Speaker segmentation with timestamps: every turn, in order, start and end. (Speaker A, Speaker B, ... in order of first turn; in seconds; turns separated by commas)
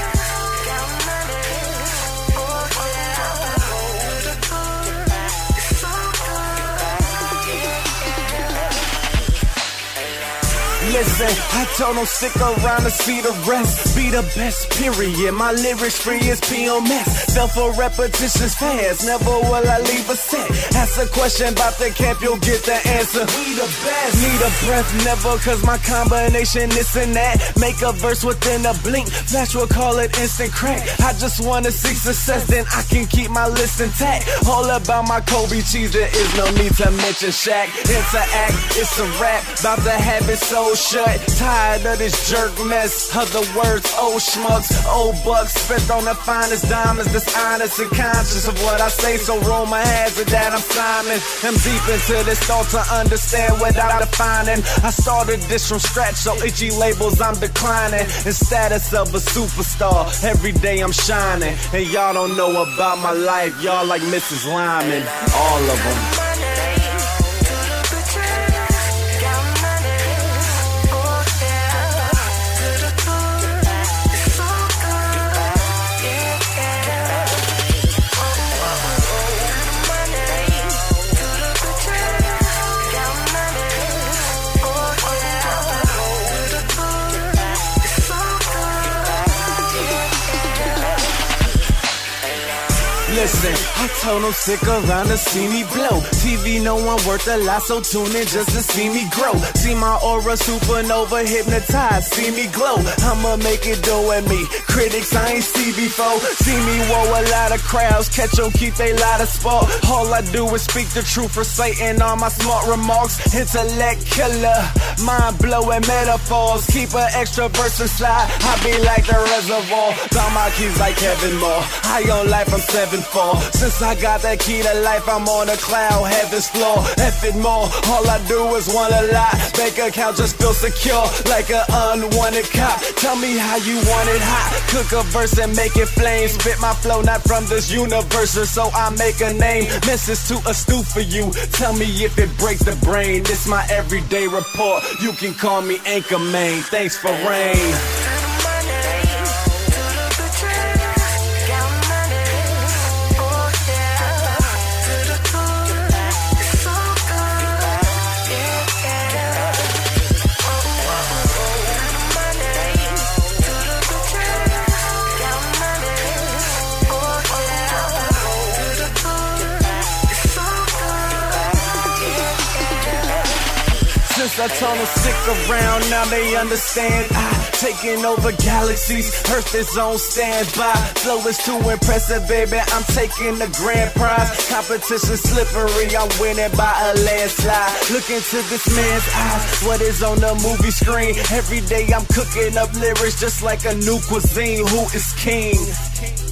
Speaker A: 10.8-66.1, Speaker A: 93.1-147.8, Speaker A: 174.0-195.8